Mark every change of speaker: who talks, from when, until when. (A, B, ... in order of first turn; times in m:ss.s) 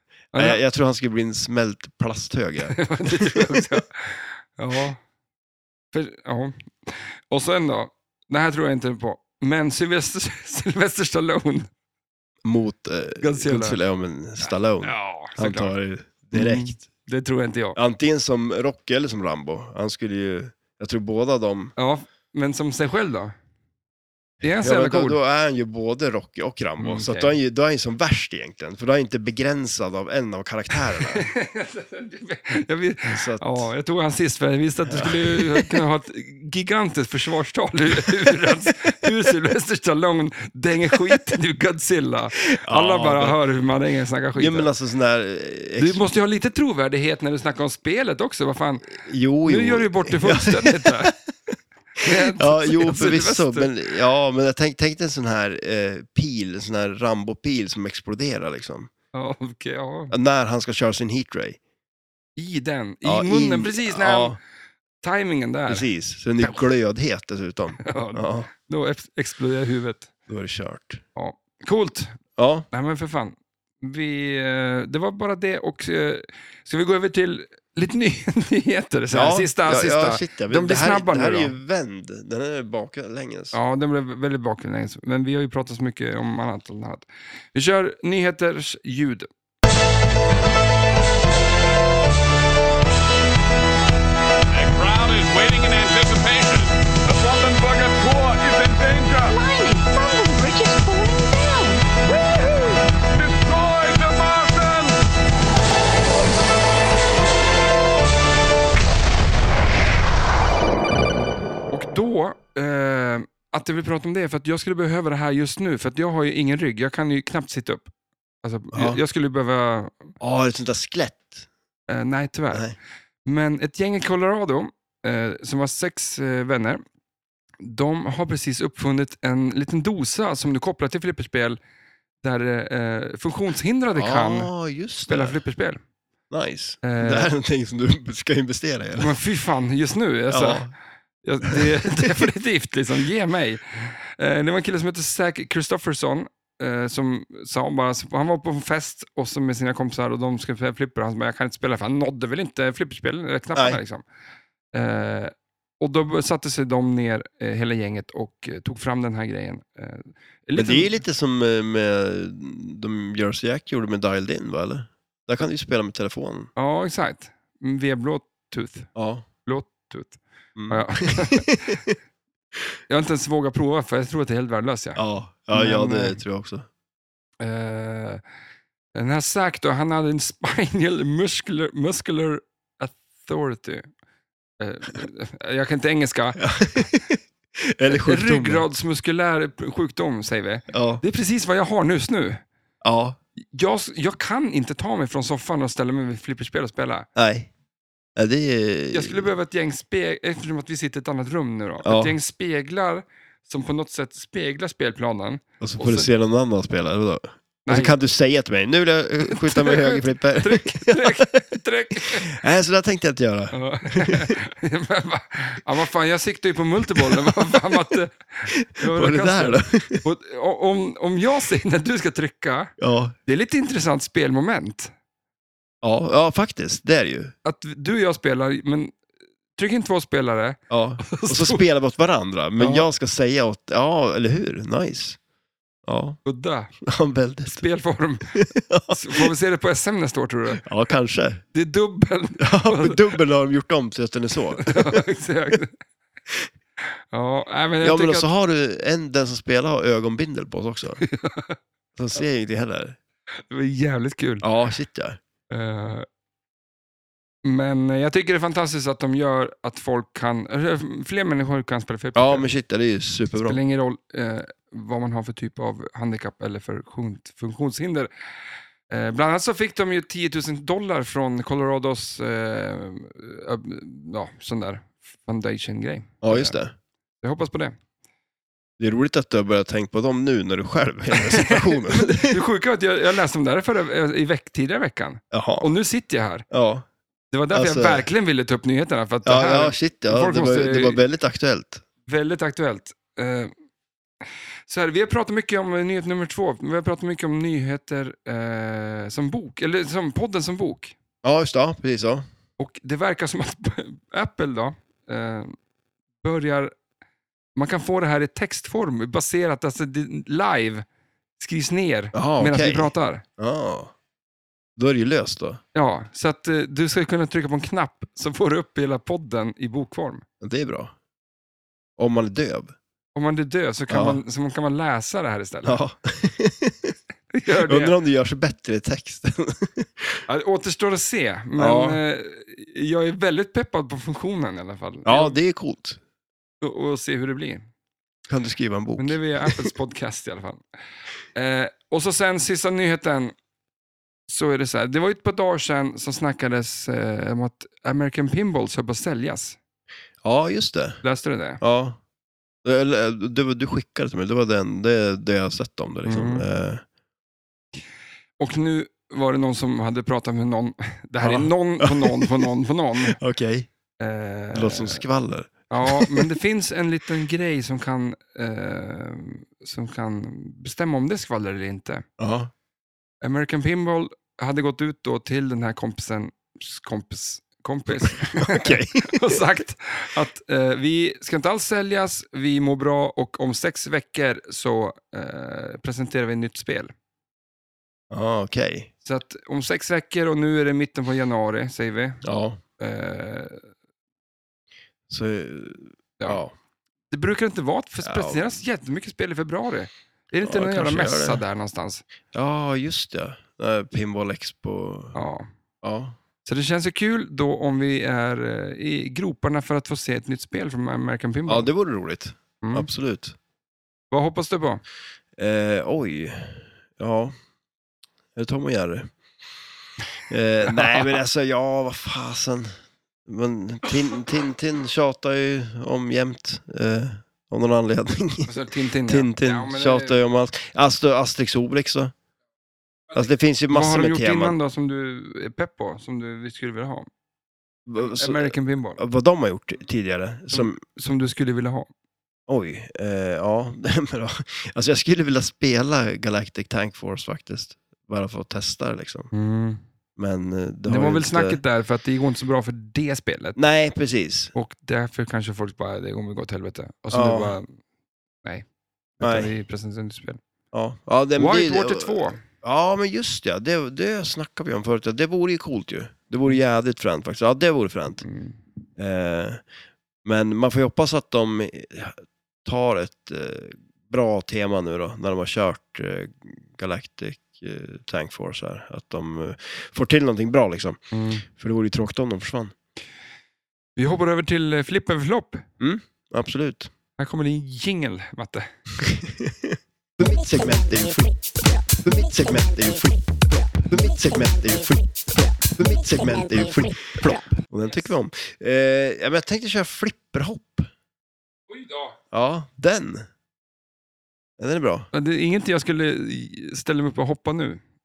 0:00.3-0:00.6 A
0:00.4-0:03.6 B
0:02.7-0:05.0 A
0:05.9-0:11.7 A
0:12.4-0:16.8 B
0:13.2-0:13.8 A
0:14.4-0:15.7 A
0:16.3-0:17.8 A
0:17.8-0:21.7 B
0:21.8-0:23.3 A
0:24.4-0:25.2 A
0:24.6-0:31.3 B
0:26.8-0:27.4 A
0:31.1-0:44.7 A
0:33.1-0:33.7 B
0:34.9-0:35.8 B
0:38.0-0:38.3 B
0:42.6-0:43.4 B
0:44.4-0:46.0 B
0:45.8-0:48.9 A
0:48.9-0:51.2 B
0:49.4-0:51.1 A
0:52.0-0:53.7 A
0:52.4-0:58.9 B
0:59.1-1:00.2 A
1:00.1-1:01.6 B
1:02.4-1:04.4 A
1:03.0-1:04.4 B
1:05.0-1:05.9 A
1:05.7-1:08.5 B
1:07.8-1:10.1 A
1:10.3-1:11.0 B
1:11.2-1:12.2 A
1:12.4-1:12.7 B
1:12.7-1:21.6 A
1:19.1-1:23.6 B
1:23.5-1:29.3 A
1:34.5-1:39.4 C
1:39.2-1:41.8 D
1:43.2-1:45.0 C
1:51.7-1:57.9 A
1:58.4-2:00.1 A
1:58.7-1:59.0 B
2:00.2-2:01.5 B
2:01.9-2:02.7 A
2:03.3-2:06.8 A
2:07.6-2:11.6 A
2:12.2-2:14.5 A
2:14.0-2:15.4 B
2:15.1-2:15.8 A
2:16.3-2:19.2 B
2:16.8-2:17.3 A
2:19.0-2:20.7 A
2:20.3-2:20.7 B
2:21.2-2:34.0 A
2:21.5-2:22.0 B
2:33.6-2:33.8 B
2:34.7-2:41.0 A
2:40.6-2:46.5 B
2:46.6-2:48.9 A
2:49.0-2:49.3 B
2:49.4-2:51.8 A
2:50.6-2:51.9 B
2:52.9-2:55.0 A
2:55.0-2:56.7 B
2:55.5-2:56.2 A
2:57.4-2:58.2 A
2:59.0-3:03.9 A
3:04.6-3:06.8 A
3:06.4-3:08.7 B
3:07.9-3:12.4 A
3:10.7-3:11.0 B
3:12.8-3:13.2 B
3:13.5-3:17.1 A
3:17.2-3:17.5 B
3:18.2-3:19.3 B
3:18.9-3:26.1 A
3:21.8-3:22.2 B
3:25.6-3:31.4 B
3:27.7-3:28.0 A
3:29.3-3:32.3 A
3:32.0-3:34.4 B
3:33.5-3:42.7 A
3:37.0-3:37.7 B
3:38.5-3:40.0 B
3:42.8-3:43.2 B
3:43.3-3:44.9 A
3:45.8-3:47.3 B
3:47.4-3:49.0 A
3:49.6-3:51.6 A
3:50.7-3:55.2 B
3:52.6-3:52.9 A
3:55.9-3:56.2 B
3:56.2-3:56.7 A
3:56.8-3:57.6 B
3:57.5-4:00.6 A
3:58.4-3:59.3 B
4:00.6-4:01.4 B
4:01.5-4:03.0 A
4:02.4-4:05.0 B
4:04.6-4:05.8 A
4:07.1-4:08.3 A
4:07.8-4:11.0 B
4:11.0-4:11.6 A
4:12.0-4:13.0 B
4:13.5-4:14.5 A
4:14.4-4:15.2 B
4:15.5-4:16.1 A
4:17.4-4:22.5 A
4:22.2-4:23.6 B
4:23.3-4:28.1 A
4:28.9-4:36.6 A
4:36.2-4:36.7 B
4:37.2-4:37.8 A
4:38.8-4:42.4 B
4:41.2-4:46.5 A
4:45.3-4:45.7 B
4:46.5-4:46.9 B
4:47.3-4:51.0 A
4:47.5-4:48.1 B
4:49.2-4:51.8 B
4:52.1-4:53.5 A
4:54.7-5:01.0 A
5:01.2-5:02.3 B
5:02.6-5:05.5 A
5:06.2-5:06.7 A
5:07.6-5:10.8 A
5:11.4-5:13.2 A
5:12.1-5:13.9 B
5:14.8-5:15.6 B
5:15.7-5:20.2 A
5:20.4-5:20.9 B
5:22.0-5:22.7 B
5:23.2-5:25.8 A
5:23.9-5:24.2 B
5:25.6-5:26.9 B
5:27.3-5:28.0 A
5:27.6-5:30.2 B
5:30.3-5:35.4 A
5:31.6-5:32.0 B
5:35.1-5:36.0 B
5:36.6-5:37.7 A
5:38.3-5:39.7 B
5:39.0-5:40.6 A
5:41.4-5:43.4 A
5:44.3-5:49.6 A
5:50.2-5:51.0 B
5:51.0-5:51.6 A
5:51.6-5:52.0 B
5:52.6-5:56.8 B
5:56.1-5:56.5 A
5:58.4-6:03.2 A
6:01.2-6:02.5 B
6:03.0-6:03.7 B
6:04.0-6:05.0 A
6:04.5-6:06.3 B
6:05.7-6:12.0 A
6:12.2-6:12.5 B
6:13.2-6:26.9 A
6:17.9-6:19.4 B
6:28.1-6:28.9 B
6:29.0-6:32.2 A
6:32.2-6:32.6 B
6:32.8-6:33.7 A
6:35.1-6:36.5 B
6:37.1-6:42.0 A
6:38.0-6:38.6 B
6:40.4-6:41.4 B
6:42.3-6:45.2 B
6:45.2-6:45.5 A
6:45.8-6:46.2 B
6:46.4-6:51.7 A
6:51.5-6:53.4 B
6:52.6-6:52.9 A
6:54.1-6:54.8 A
6:55.4-6:57.4 B
6:58.4-6:59.1 B
7:00.3-7:02.7 B
7:00.6-7:01.1 A
7:03.3-7:08.5 B
7:08.5-7:10.2 A
7:09.1-7:12.1 B
7:13.1-7:14.6 B
7:13.7-7:17.1 A
7:17.9-7:20.8 B
7:18.0-7:19.0 A
7:20.5-7:21.9 A
7:22.5-7:29.3 B
7:29.3-7:29.8 A
7:30.2-7:31.6 B
7:30.9-7:33.6 A
7:33.6-7:34.5 B
7:34.5-7:37.7 A
7:37.1-7:37.6 B
7:39.2-7:40.4 A
7:39.2-7:39.5 B
7:40.7-7:48.2 B
7:41.4-7:42.4 A
7:48.2-7:48.6 A
7:49.0-7:49.6 B
7:50.2-8:02.8 B
8:01.1-8:01.4 A
8:04.0-8:05.7 A
8:05.8-8:06.9 B
8:07.2-8:08.7 A
8:09.0-8:20.9 B
8:21.7-8:22.2 A
8:22.3-8:23.3 B
8:24.6-8:25.1 B
8:25.1-8:27.8 A